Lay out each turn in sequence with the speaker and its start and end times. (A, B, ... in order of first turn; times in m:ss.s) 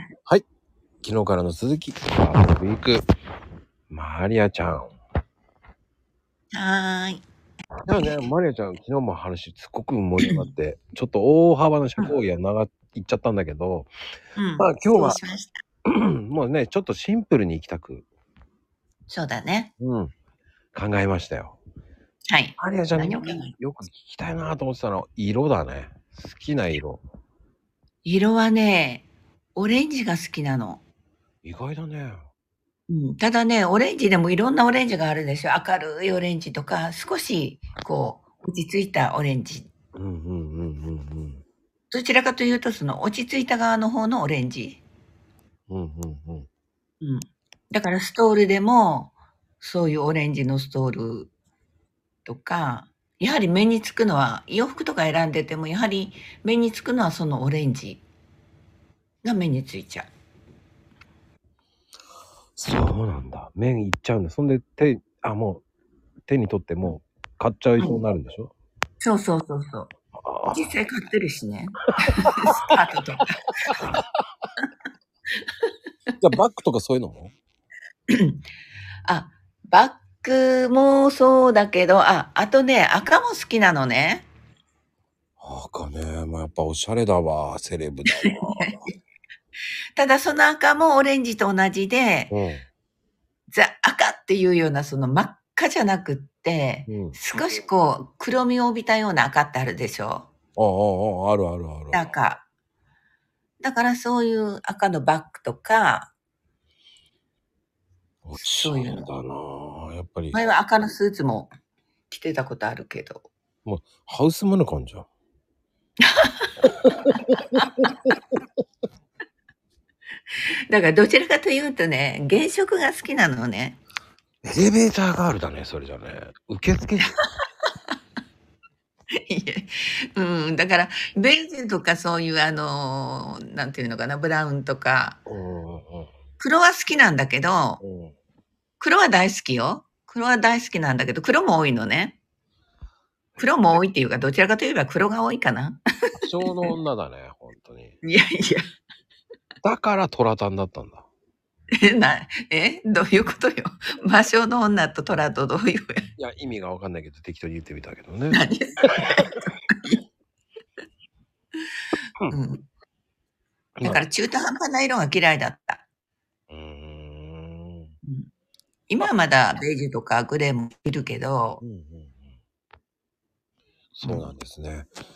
0:01.0-0:03.1 A
0:03.9-0:04.9 A
0:06.5-0:07.2 B
0:07.8-0:13.9 A
0:10.2-0:10.5 B
0:14.4-0:15.6 B
0:14.6-0:15.2 A
0:15.9-0:18.1 A
0:19.1-0:19.7 B
0:19.8-0:20.1 A
0:20.7-0:21.6 A
0:22.3-0:23.5 B
0:22.6-0:27.0 A
0:28.0-0:30.8 B
0:31.4-0:32.3 A
0:32.9-0:39.7 B
0:40.0-0:41.4 A
0:41.9-0:44.8 B
0:45.7-0:46.5 A
0:47.0-0:51.3 B
0:52.2-0:58.0 B
0:59.2-1:00.1 B
1:02.6-1:05.6 A
1:06.3-1:08.5 A
1:07.8-1:08.0 B
1:09.0-1:09.9 B
1:10.2-1:10.7 A
1:10.5-1:13.8 B
1:13.7-1:14.0 A
1:16.2-1:17.3 A
1:18.1-1:18.4 B
1:19.1-1:24.3 B
1:25.4-1:28.7 A
1:28.1-1:28.9 B
1:30.0-1:32.3 B
1:32.3-1:32.6 A
1:33.5-1:40.3 B
1:36.9-1:37.2 A
1:40.6-1:42.1 A
1:41.9-1:42.4 B
1:43.6-1:46.1 B
1:48.2-1:50.4 A
1:48.4-1:49.1 B
1:50.3-1:51.5 B
1:52.1-1:53.3 B
1:53.6-1:55.1 A
1:56.0-1:56.5 B
1:56.8-1:58.2 A
1:57.6-1:57.9 B
2:00.7-2:03.8 B
2:04.4-2:07.2 A
2:09.3-2:15.2 B
2:15.3-2:16.1 A
2:16.4-2:17.8 B
2:17.8-2:18.1 A
2:18.8-2:22.2 B
2:23.4-2:23.6 A
2:23.4-2:26.7 B
2:26.2-2:28.0 A
2:28.0-2:28.6 B
2:29.6-2:31.1 A
2:31.8-2:36.1 B
2:36.2-2:39.2 A
2:38.3-2:40.0 B
2:42.3-2:42.7 B
2:43.8-2:44.0 A
2:43.8-2:45.8 B
2:46.5-2:47.9 A
2:48.0-2:48.3 B
2:48.9-2:51.6 B
2:51.6-2:52.3 A
2:54.0-2:54.9 A
2:54.0-2:54.3 B